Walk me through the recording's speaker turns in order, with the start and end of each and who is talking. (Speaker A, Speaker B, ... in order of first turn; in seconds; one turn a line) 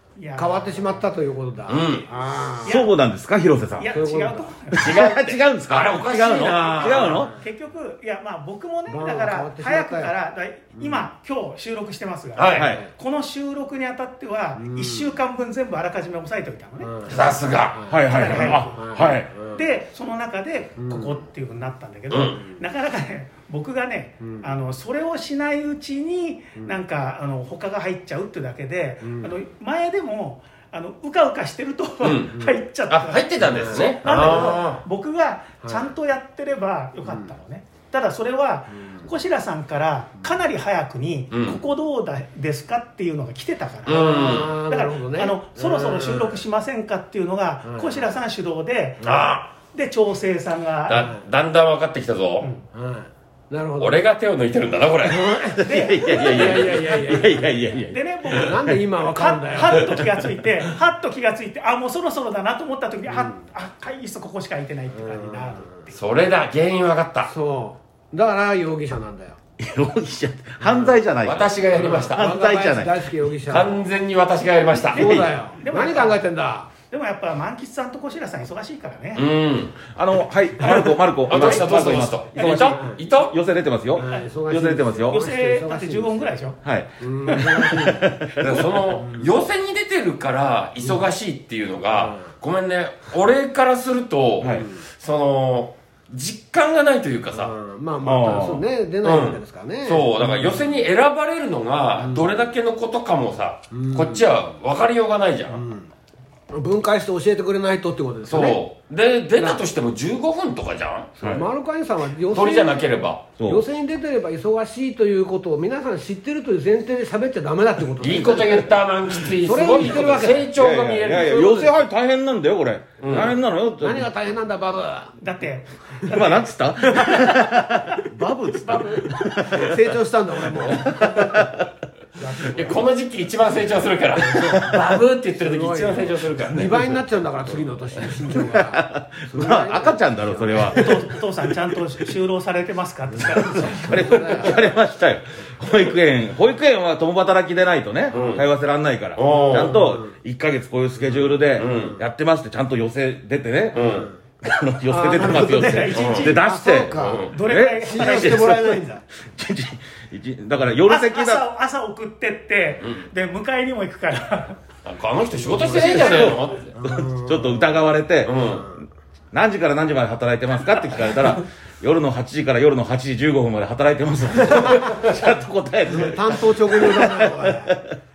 Speaker A: 0.1-1.0
Speaker B: 0.3-2.8
Speaker C: 1.7-2.0
Speaker A: 2.6-2.9
Speaker D: 2.6-3.9
Speaker A: 3.8-4.9
Speaker B: 3.9-4.5
Speaker D: 4.7-7.3
Speaker C: 4.8-7.3
Speaker B: 6.8-7.3
Speaker A: 7.2-17.0
Speaker B: 8.9-10.1
Speaker B: 10.8-11.0
Speaker C: 12.3-12.8
Speaker D: 12.5-12.8
Speaker B: 14.6-15.1
Speaker B: 16.8-19.6
Speaker C: 17.1-17.9
Speaker D: 17.9-19.3
Speaker A: 18.0-49.1
Speaker B: 20.8-21.2
Speaker C: 22.1-22.4
Speaker B: 29.0-29.3
Speaker C: 32.0-34.8
Speaker B: 33.4-34.6
Speaker B: 35.6-35.9
Speaker B: 37.1-37.3
Speaker C: 41.3-41.6
Speaker C: 43.9-44.6
Speaker B: 43.9-46.4
Speaker B: 47.6-48.0
Speaker C: 49.0-49.5
Speaker A: 49.7-51.1
Speaker C: 50.9-52.5
Speaker A: 52.4-52.6
Speaker B: 52.7-54.0
Speaker C: 53.8-55.6
Speaker B: 55.0-57.7
Speaker D: 55.6-58.0
Speaker A: 55.6-56.4
Speaker C: 56.2-57.0
Speaker A: 57.9-66.0
Speaker B: 58.3-60.0
Speaker B: 63.1-63.3
Speaker B: 65.0-65.6
Speaker C: 65.9-67.3
Speaker B: 67.3-69.4
Speaker D: 69.6-73.0
Speaker B: 70.6-70.9
Speaker C: 71.2-72.3
Speaker B: 71.7-73.8
Speaker C: 73.4-75.3
Speaker B: 74.9-76.7
Speaker A: 74.9-76.2
Speaker A: 76.8-79.3
Speaker C: 79.1-79.8
Speaker D: 79.9-85.2
Speaker B: 80.6-83.0
Speaker C: 81.3-83.3
Speaker B: 83.9-86.3
Speaker A: 85.1-86.6
Speaker D: 86.6-88.7
Speaker B: 87.0-88.2
Speaker A: 87.3-87.7
Speaker C: 88.4-97.5
Speaker B: 88.9-89.3
Speaker B: 91.9-92.2
Speaker D: 94.4-94.7
Speaker B: 97.3-100.8
Speaker D: 98.0-98.7
Speaker C: 99.0-105.6
Speaker B: 102.0-102.3
Speaker B: 103.7-104.2
Speaker B: 105.5-105.9
Speaker B: 106.5-108.6
Speaker C: 108.2-111.1
Speaker B: 111.2-120.5
Speaker C: 112.3-113.2
Speaker D: 113.4-113.6
Speaker C: 118.0-121.7
Speaker D: 120.5-124.1
Speaker C: 123.0-123.3
Speaker B: 123.8-125.2
Speaker A: 125.2-128.0
Speaker D: 126.1-129.9
Speaker A: 128.6-129.2
Speaker B: 129.4-131.3
Speaker C: 130.5-131.2
Speaker D: 130.7-131.6
Speaker A: 132.2-132.8
Speaker C: 132.4-138.3
Speaker B: 134.2-141.1
Speaker D: 138.5-141.0
Speaker A: 140.7-144.2
Speaker B: 143.3-144.6
Speaker D: 143.5-161.4
Speaker C: 148.1-148.4
Speaker C: 149.2-149.9
Speaker B: 149.4-150.0
Speaker C: 151.5-152.0
Speaker C: 153.7-154.1
Speaker B: 153.8-154.1
Speaker B: 154.9-159.0
Speaker A: 155.3-156.4
Speaker C: 155.9-156.3
Speaker C: 156.9-157.3
Speaker A: 157.3-158.6
Speaker A: 160.8-164.6
Speaker C: 162.8-163.1
Speaker C: 164.8-166.7
Speaker B: 165.3-167.8
Speaker D: 165.8-168.5
Speaker C: 168.2-168.7
Speaker B: 168.5-168.8
Speaker D: 169.3-177.9
Speaker B: 175.9-177.8